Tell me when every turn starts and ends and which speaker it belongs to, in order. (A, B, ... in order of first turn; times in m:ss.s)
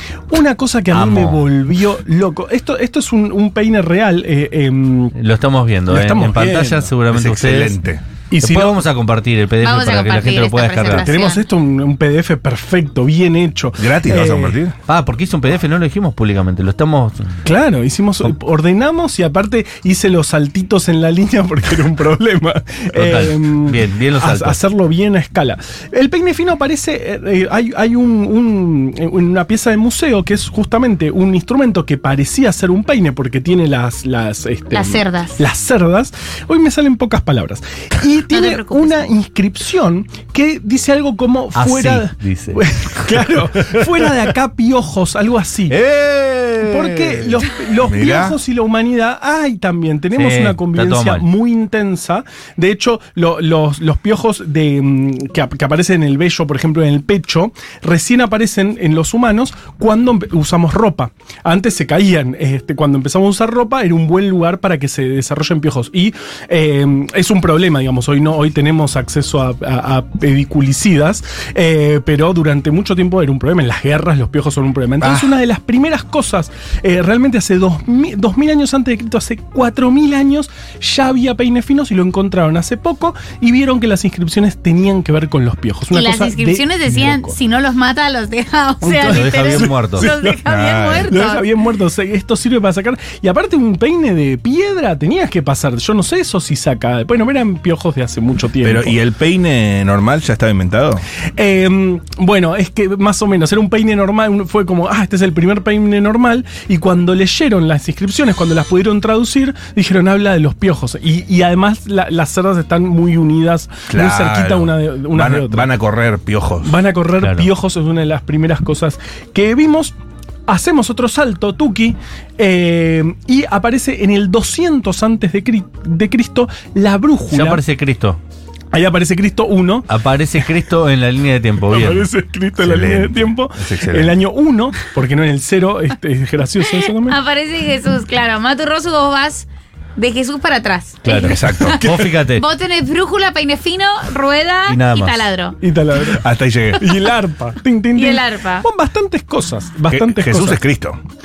0:00.3-0:05.2 A
0:00.9-0:01.4 B
0:05.2-0:07.8 B
0:05.9-0:06.9 A
0:07.1-0:08.0 C
0:08.3-0:08.8 A
0:08.4-0:11.1 B
0:09.6-0:11.4 D
0:10.9-0:14.6 A
0:13.8-0:14.8 C
0:14.9-0:17.4 B
0:17.4-0:45.8 A
0:22.9-0:24.6 B
0:34.7-0:35.4 D
0:38.3-0:39.0 D
0:41.5-0:44.1 B
0:45.7-0:47.4 B
0:46.6-1:27.4 A
0:47.8-0:48.4 C
0:50.1-0:51.2 B
1:15.0-1:15.3 C
1:25.9-1:31.4 D
1:28.8-1:30.4 A
1:29.0-1:30.1 B
1:30.4-1:31.2 C
1:31.0-1:39.0 A
1:38.6-1:41.0 C
1:41.4-1:55.7 A
1:53.9-1:56.8 C
1:56.6-1:59.9 A
1:57.2-1:57.5 B
2:00.5-2:07.6 A
2:07.3-2:08.2 B
2:08.7-2:09.9 A
2:09.9-2:12.0 B
2:11.7-2:17.2 A
2:12.6-2:14.1 C
2:16.8-2:25.6 D
2:21.0-2:22.4 B
2:21.2-2:21.8 C
2:21.8-2:22.1 A
2:24.6-2:25.3 B
2:25.6-2:30.6 A
2:26.0-2:27.0 C
2:27.9-2:28.6 D
2:29.9-2:31.0 C